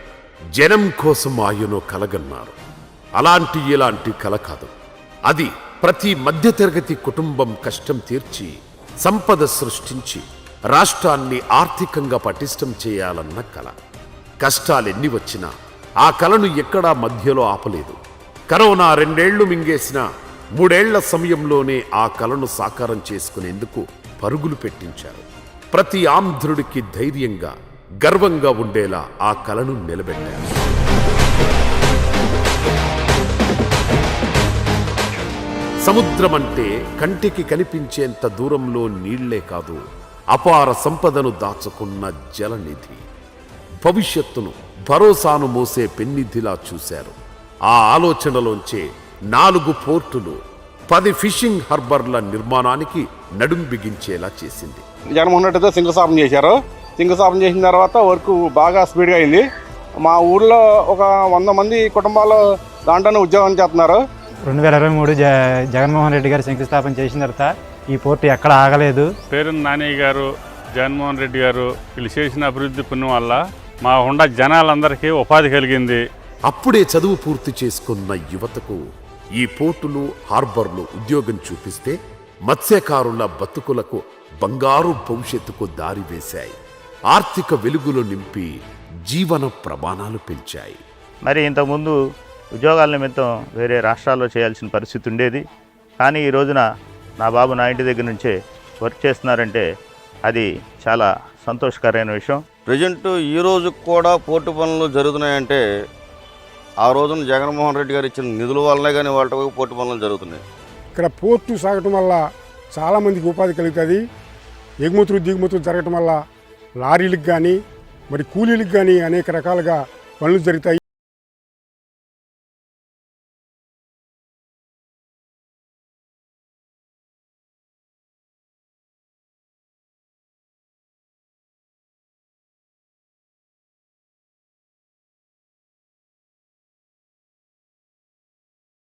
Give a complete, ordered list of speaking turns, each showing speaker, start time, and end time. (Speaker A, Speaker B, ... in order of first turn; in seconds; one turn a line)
Speaker A: 0.6-2.5
Speaker A: 3.2-4.7
Speaker A: 5.3-13.7
Speaker A: 14.4-15.5
Speaker A: 16.0-20.0
Speaker A: 20.6-30.5
Speaker A: 35.8-39.8
Speaker A: 40.3-43.0
Speaker A: 43.8-47.1
Speaker A: 47.7-50.4
Speaker A: 50.9-54.8
Speaker B: 55.2-59.4
Speaker B: 60.0-64.0
Speaker C: 64.5-69.1
Speaker D: 69.3-70.2
Speaker D: 70.8-76.0
Speaker A: 76.5-78.8
Speaker A: 79.4-86.5
Speaker A: 87.1-88.5
Speaker A: 89.1-90.8
Speaker E: 91.2-92.0
Speaker E: 92.6-95.4
Speaker E: 96.0-96.6
Speaker E: 97.2-99.6
Speaker E: 100.2-102.4
Speaker F: 102.7-104.0
Speaker E: 103.9-105.0
Speaker F: 104.7-105.4
Speaker F: 106.8-110.4
Speaker G: 111.0-112.2
Speaker G: 112.7-114.0
Speaker G: 114.8-116.2
Speaker G: 116.8-117.6
Speaker G: 118.1-120.8